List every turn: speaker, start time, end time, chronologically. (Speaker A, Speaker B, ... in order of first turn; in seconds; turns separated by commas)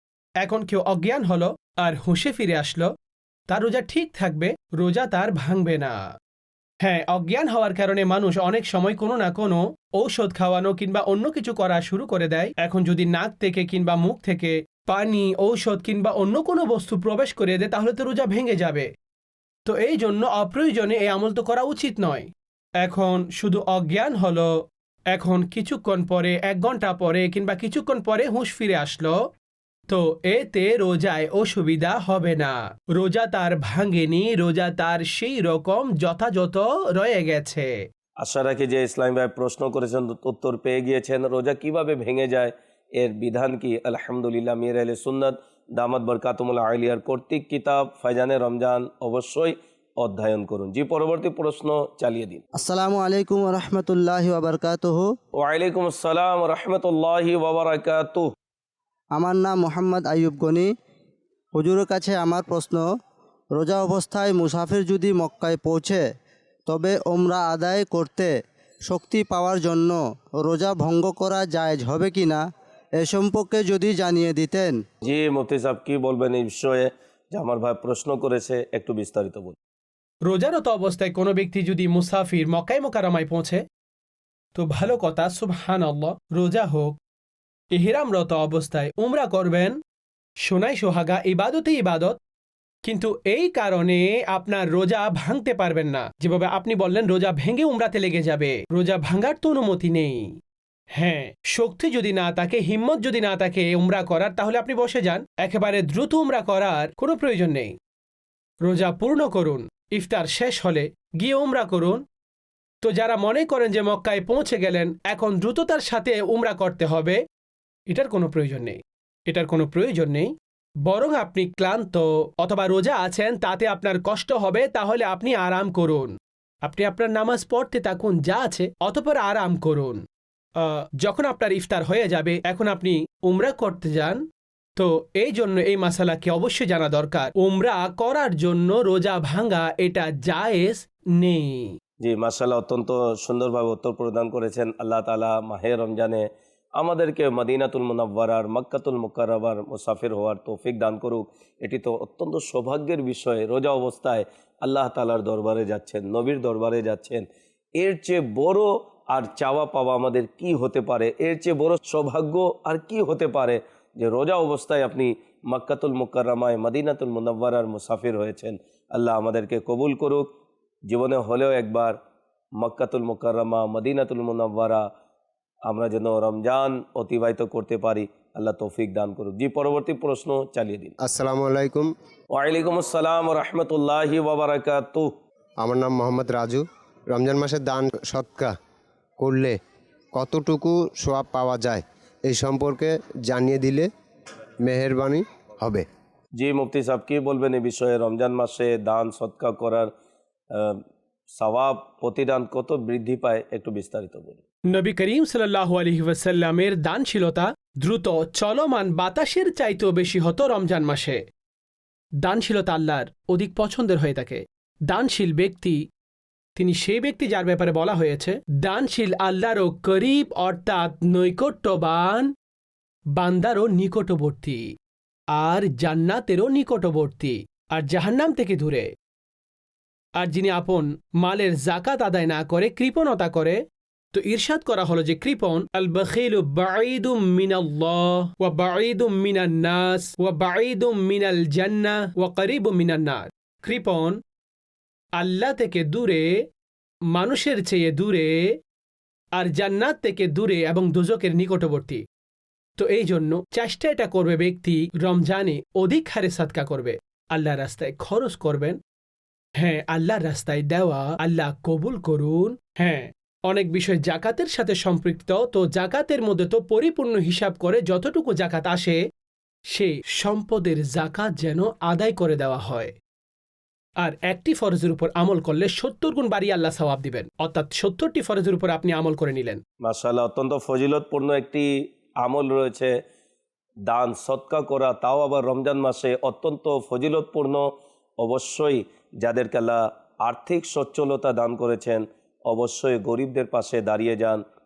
Speaker A: 0.4-2.9, Speaker A: 3.5-6.0, Speaker A: 6.8-18.9, Speaker A: 19.7-29.2, Speaker A: 29.9-37.7, Speaker B: 38.2-52.4, Speaker C: 52.6-55.1, Speaker B: 55.4-58.3, Speaker C: 59.2-60.7, Speaker C: 61.5-62.9, Speaker C: 63.6-66.1, Speaker C: 66.7-72.5, Speaker C: 73.0-74.8, Speaker B: 75.0-79.6, Speaker A: 80.3-83.6, Speaker A: 84.6-87.0, Speaker A: 87.7-89.8, Speaker A: 90.4-92.2, Speaker A: 92.8-100.3, Speaker A: 101.0-107.8, Speaker A: 108.6-112.0, Speaker A: 112.8-117.2, Speaker A: 117.9-120.3, Speaker A: 120.8-130.0, Speaker A: 130.6-134.2, Speaker A: 134.8-141.8, Speaker B: 142.0-170.3, Speaker B: 170.9-172.0, Speaker B: 172.6-174.9, Speaker B: 175.7-180.9, Speaker D: 181.0-181.9, Speaker B: 182.3-185.2, Speaker D: 185.6-188.5, Speaker D: 189.2-189.6, Speaker D: 190.1-193.9, Speaker D: 194.6-195.9, Speaker B: 196.4-199.9, Speaker B: 200.5-200.8, Speaker B: 201.3-204.4, Speaker A: 204.7-211.2, Speaker A: 212.2-215.8, Speaker A: 216.6-222.3, Speaker A: 223.2-224.7, Speaker A: 225.3-228.9, Speaker A: 230.2-244.2, Speaker A: 245.2-246.3, Speaker A: 247.1-248.6, Speaker A: 249.4-252.0, Speaker A: 252.8-258.8, Speaker A: 259.6-269.0, Speaker A: 269.7-272.9, Speaker A: 274.0-279.6, Speaker B: 279.8-283.0, Speaker B: 283.9-294.4